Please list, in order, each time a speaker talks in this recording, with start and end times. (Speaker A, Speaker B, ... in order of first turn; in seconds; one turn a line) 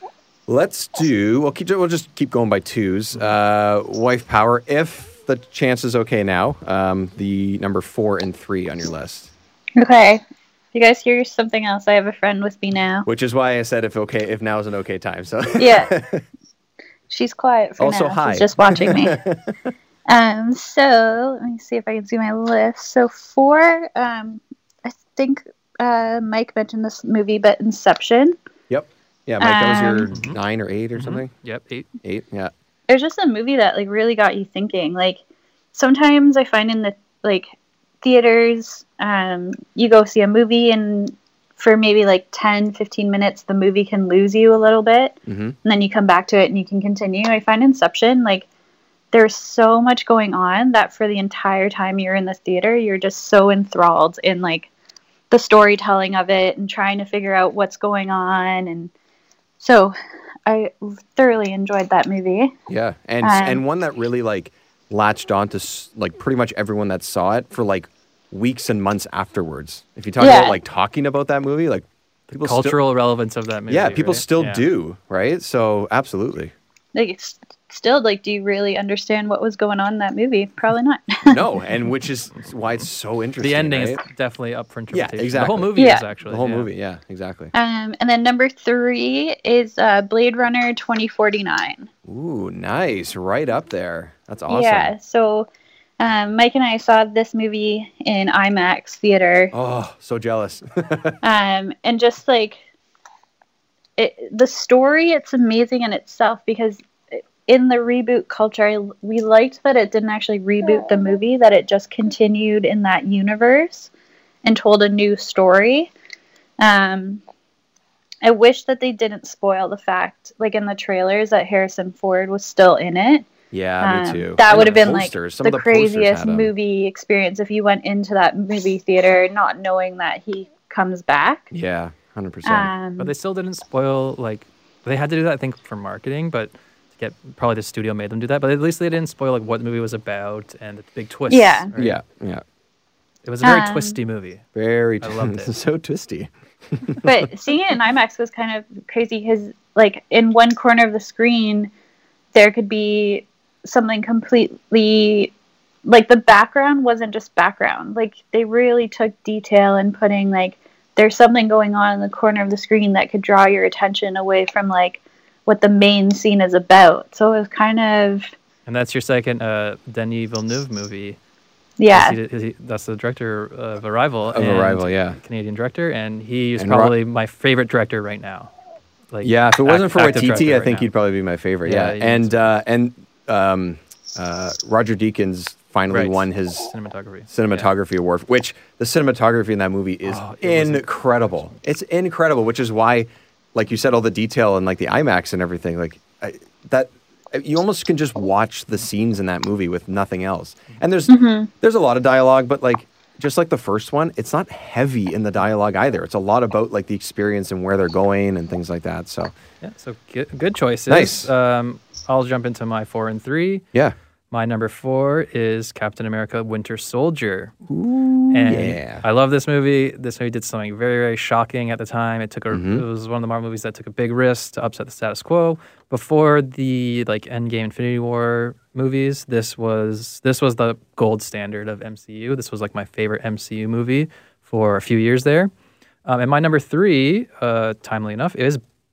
Speaker A: 0.5-9.3
Speaker B: 9.8-10.2
Speaker B: 10.7-13.1
Speaker A: 13.0-16.2
Speaker B: 15.6-15.9
Speaker B: 17.1-19.2
Speaker A: 17.8-19.5
Speaker B: 20.1-28.4
Speaker A: 28.7-31.3
Speaker B: 29.4-30.1
Speaker C: 30.1-30.4
Speaker C: 30.9-31.9
Speaker A: 32.0-32.5
Speaker B: 32.9-35.2
Speaker B: 35.7-37.5
Speaker B: 38.0-48.5
Speaker A: 45.3-45.5
Speaker B: 49.1-54.7
Speaker B: 55.3-58.9
Speaker B: 59.6-62.5
Speaker A: 62.7-72.8
Speaker B: 63.2-63.6
Speaker B: 70.2-70.6
Speaker C: 72.3-74.6
Speaker A: 73.7-76.5
Speaker B: 76.9-81.5
Speaker A: 81.2-84.0
Speaker C: 83.4-86.7
Speaker A: 84.9-87.5
Speaker B: 85.8-86.0
Speaker B: 87.5-91.9
Speaker A: 92.0-94.9
Speaker B: 94.5-95.5
Speaker B: 96.0-99.5
Speaker A: 99.5-101.2
Speaker B: 101.2-102.6
Speaker B: 104.0-113.9
Speaker B: 114.4-115.9
Speaker B: 116.6-117.2
Speaker B: 118.2-123.3
Speaker A: 123.5-126.5
Speaker B: 123.8-131.5
Speaker A: 131.5-132.7
Speaker B: 132.4-133.1
Speaker C: 133.0-142.0
Speaker B: 141.3-141.7
Speaker A: 141.7-142.4
Speaker C: 143.2-144.4
Speaker B: 143.4-144.0
Speaker A: 144.5-147.1
Speaker C: 145.0-145.5
Speaker B: 147.0-151.7
Speaker B: 152.3-155.3
Speaker B: 155.8-168.3
Speaker C: 168.7-171.2
Speaker B: 171.8-172.2
Speaker C: 171.9-178.5
Speaker A: 174.3-175.2
Speaker A: 176.6-176.9
Speaker C: 179.1-180.9
Speaker A: 179.2-186.7
Speaker C: 181.6-182.5
Speaker C: 185.9-187.7
Speaker A: 187.3-209.3
Speaker C: 190.0-191.5
Speaker B: 201.1-201.5
Speaker C: 209.6-213.7
Speaker A: 210.9-211.3
Speaker C: 214.3-217.5
Speaker A: 217.7-219.0
Speaker C: 218.3-235.5
Speaker A: 222.5-222.8
Speaker C: 236.0-238.6